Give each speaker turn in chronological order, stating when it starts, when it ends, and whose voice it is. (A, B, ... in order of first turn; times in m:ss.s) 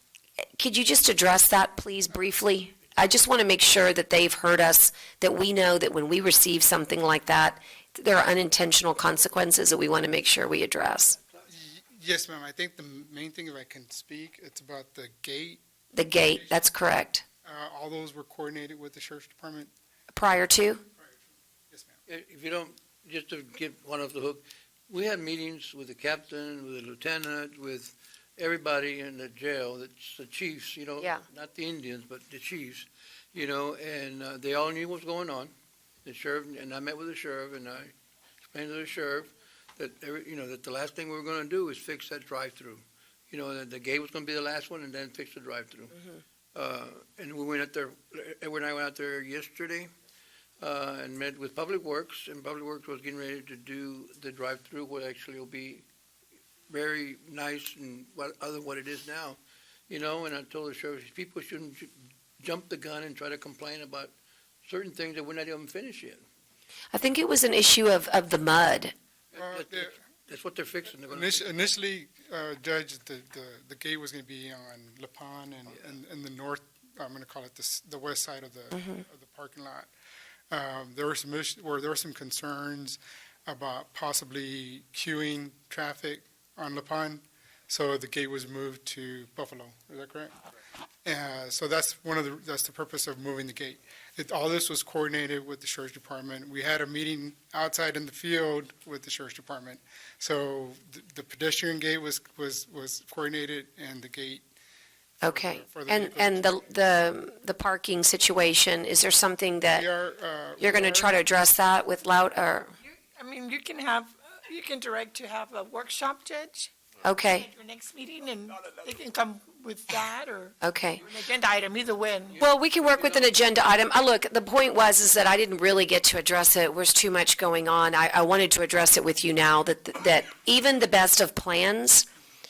0:00.6-0:11.2 A
0:11.5-0:15.6 B
0:15.9-0:17.2 A
0:16.2-0:16.7 B
0:17.4-0:19.7 B
0:20.1-0:20.8 A
0:21.7-0:22.0 B
0:22.1-0:35.5 C
0:36.0-0:37.9 C
0:38.5-0:46.0 C
0:46.6-0:49.9 C
0:50.6-0:55.8 C
0:56.7-0:59.4 C
0:59.9-1:04.1 C
1:04.6-1:06.2 C
1:06.9-1:08.9 A
1:09.3-1:11.6 C
1:09.4-1:10.0 B
1:11.1-1:19.9 B
1:20.5-1:30.3 B
1:31.0-1:44.4 B
1:45.2-1:49.9 A
1:45.2-1:46.7 B
1:49.7-1:51.2 B
1:50.6-1:52.7 A
1:53.2-1:56.7 D
1:57.0-1:57.5 A
1:57.4-2:02.4 D
2:00.6-2:01.1 A
2:02.4-2:03.3 C
2:02.4-2:12.1 A